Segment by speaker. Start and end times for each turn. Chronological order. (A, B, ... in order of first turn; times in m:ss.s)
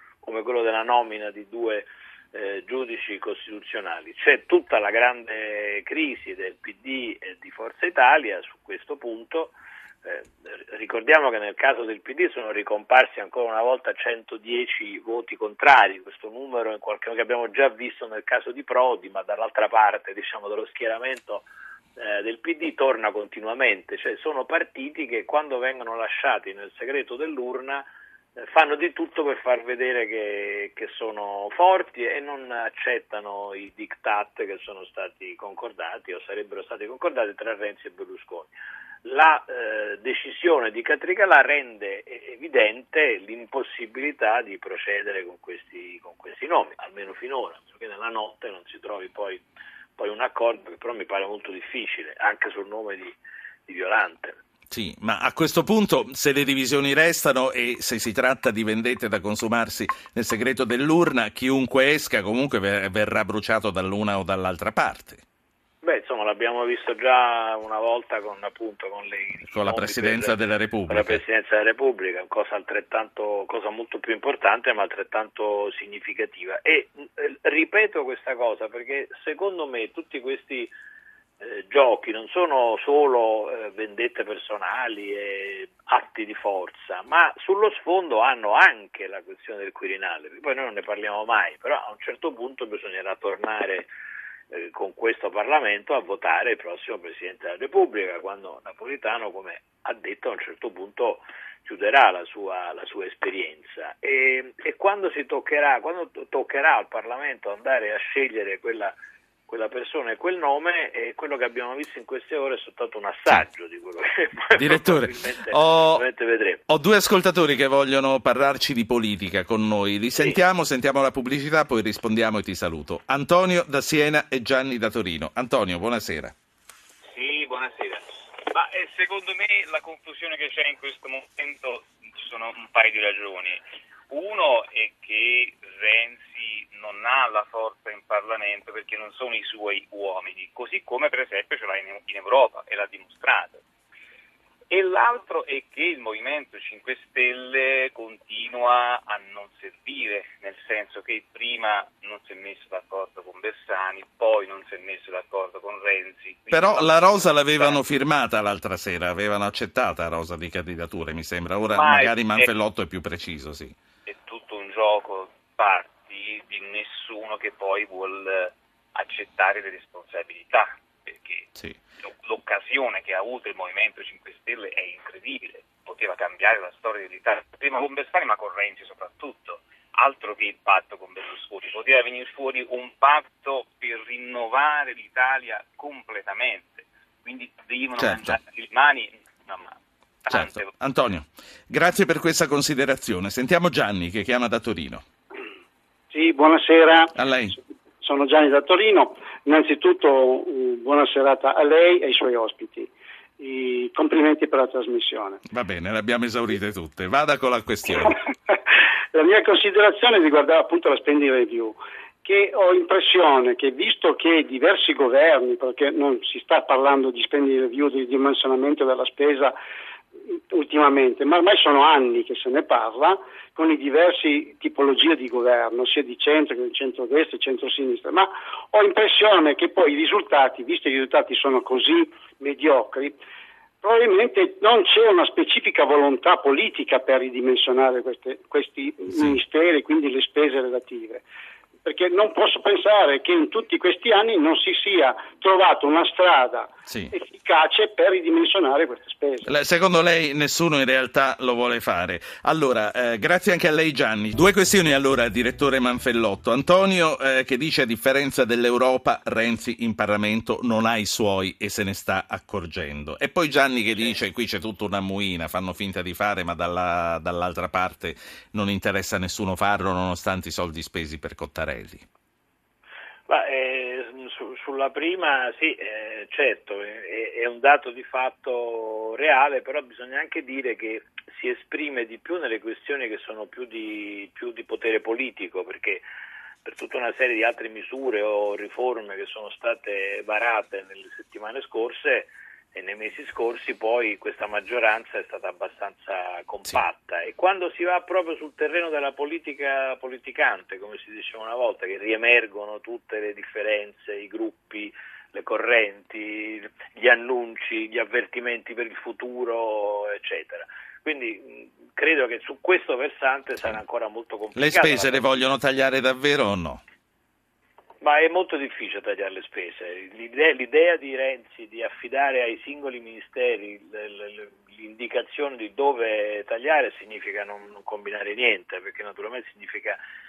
0:00.2-0:38.5 A
0:39.0-0:49.4 A
0:50.0-0:54.4 A
0:54.7-1:05.2 B
1:05.8-1:20.7 A
1:09.4-1:11.2 B
1:21.4-1:33.9 A
1:34.5-1:49.0 A
1:49.5-1:56.6 A
1:54.6-1:56.1 B
1:56.7-2:06.3 B
2:07.1-2:23.6 C
2:24.7-2:37.8 C
2:36.5-2:43.8 B
2:41.7-2:42.5 C
2:44.1-2:51.5 C
2:52.0-3:10.7 C
3:08.0-3:08.4 B
3:10.3-3:15.0 B
3:16.1-3:17.1 D
3:17.2-3:17.6 B
3:18.0-3:25.4 D
3:25.5-3:28.2 B
3:29.1-3:39.6 D
3:40.5-3:53.2 D
3:53.8-4:01.2 D
3:59.1-3:59.4 B
4:01.8-4:09.5 D
4:06.9-4:07.1 B
4:09.4-4:32.0 B
4:33.3-4:46.1 A
4:46.6-5:15.3 A
5:14.6-5:16.8 B
5:18.0-5:30.0 A